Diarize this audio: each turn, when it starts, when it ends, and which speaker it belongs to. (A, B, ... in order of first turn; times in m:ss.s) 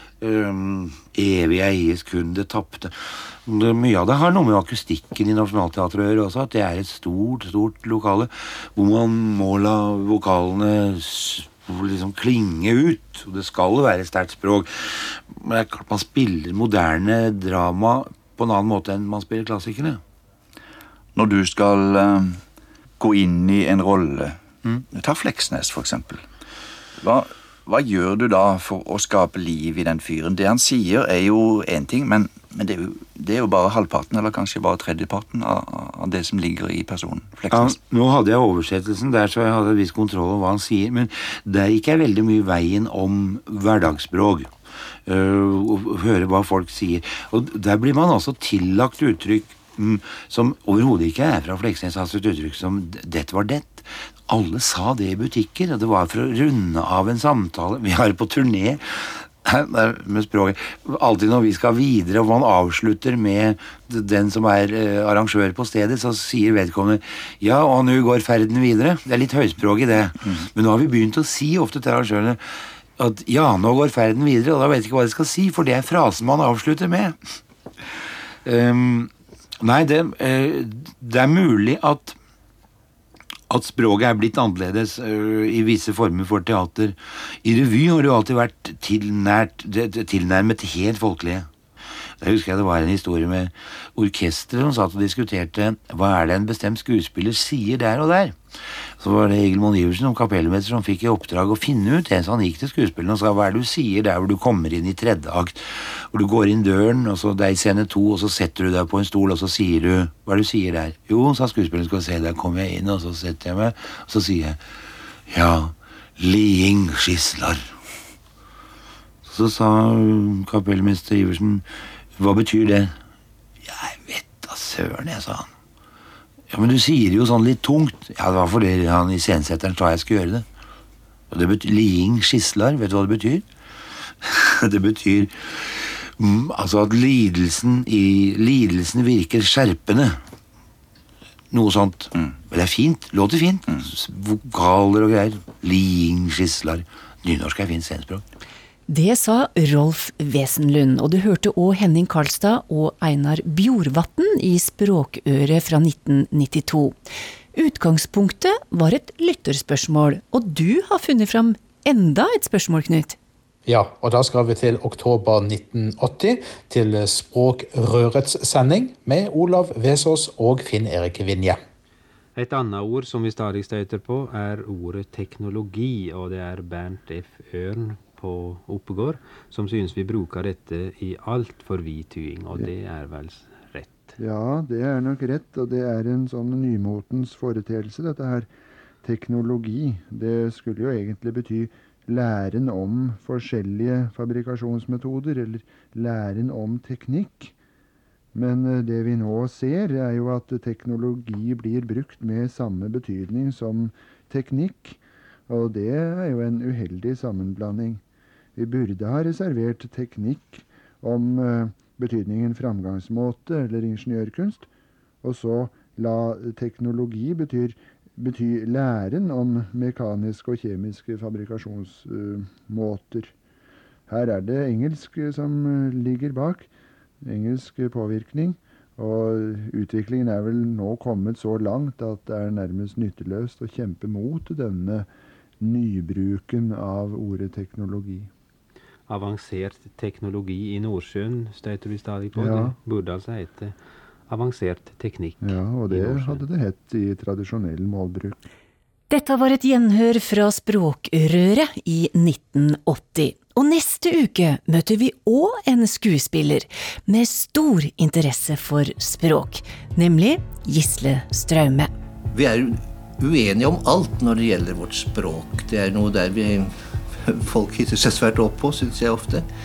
0:00.2-0:20.0 A
0:21.1-0:22.4 B
0:23.0-0:26.2 B
0:27.0-0:37.7 B
0:37.5-0:44.5 A
0:45.1-1:17.2 A
1:18.4-1:22.2 A
1:23.5-1:31.5 A
1:32.2-1:38.4 A
1:39.0-1:54.6 A
1:55.3-1:57.7 A
1:59.2-2:03.0 A
2:03.6-2:05.5 A
2:06.5-2:10.4 A
2:11.3-2:13.4 A
2:14.2-2:20.2 A
2:21.5-2:28.2 A
2:28.9-2:37.0 C
2:37.5-2:43.2 C
2:43.6-2:51.6 D
2:52.4-3:04.2 E
3:04.2-3:08.5 F
3:09.0-3:17.5 F
3:18.3-3:28.0 F
3:28.6-3:34.7 F
3:35.2-3:43.3 F
3:44.1-3:46.7 F
3:47.2-3:55.1 F
3:55.6-3:58.3 F
3:59.1-4:06.5 E
4:02.3-4:02.8 F
4:05.4-4:08.4 F
4:09.1-4:21.9 C
4:22.3-4:29.5 G